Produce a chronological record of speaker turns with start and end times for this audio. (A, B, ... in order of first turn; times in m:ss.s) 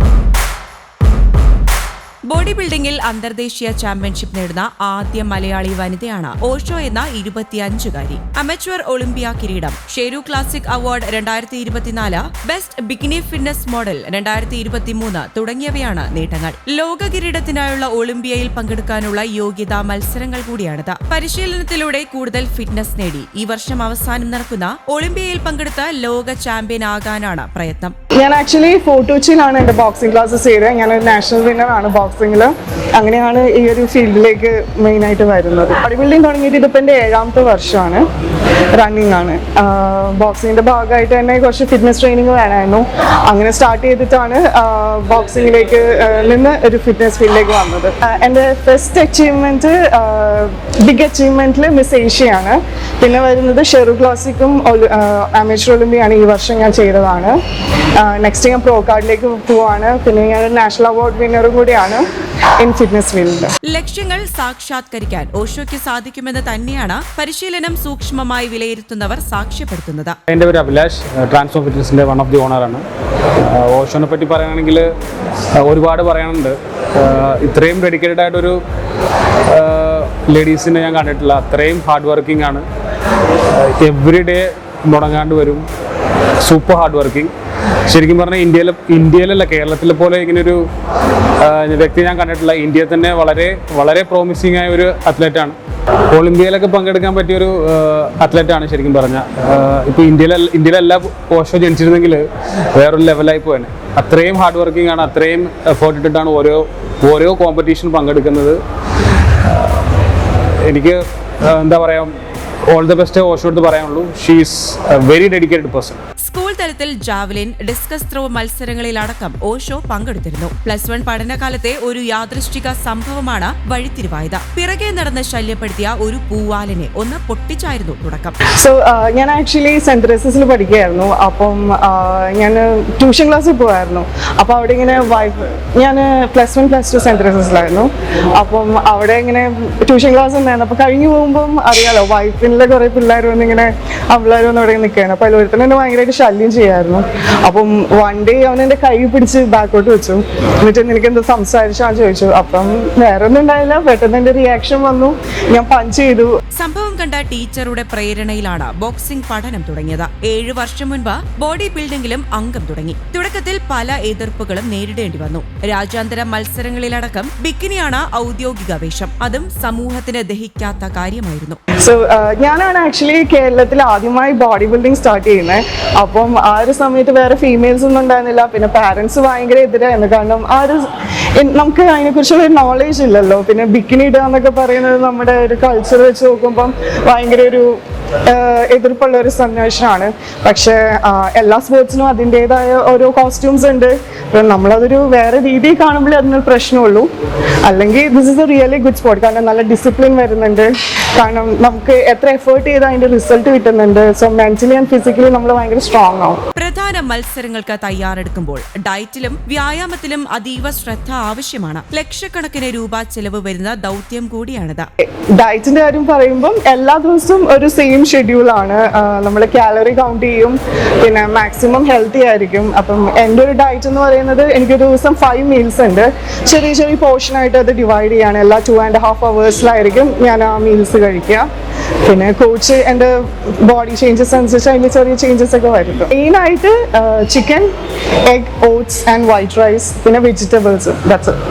0:02.3-0:27.9 A
0:28.2-0:38.0 B
0:38.7-0:57.4 B
0:58.0-1:02.0 B
1:02.6-1:03.5 B
1:03.7-1:10.2 A
1:10.3-1:12.8 C
1:13.4-1:14.9 C
1:15.5-1:18.6 C
1:19.5-1:22.6 C
1:23.4-1:25.6 C
1:26.4-1:27.3 C
1:27.9-1:30.6 C
1:31.4-1:35.6 C
1:36.1-1:48.6 C
1:49.3-1:49.8 C
1:50.6-1:52.1 C
1:52.7-1:56.0 C
1:56.2-2:08.4 A
2:08.6-2:36.3 B
2:36.6-2:51.6 A
2:51.8-3:17.1 B
3:17.6-3:26.4 B
3:26.6-3:34.9 A
3:35.4-3:51.5 B
3:52.0-3:57.7 B
3:58.2-4:01.4 B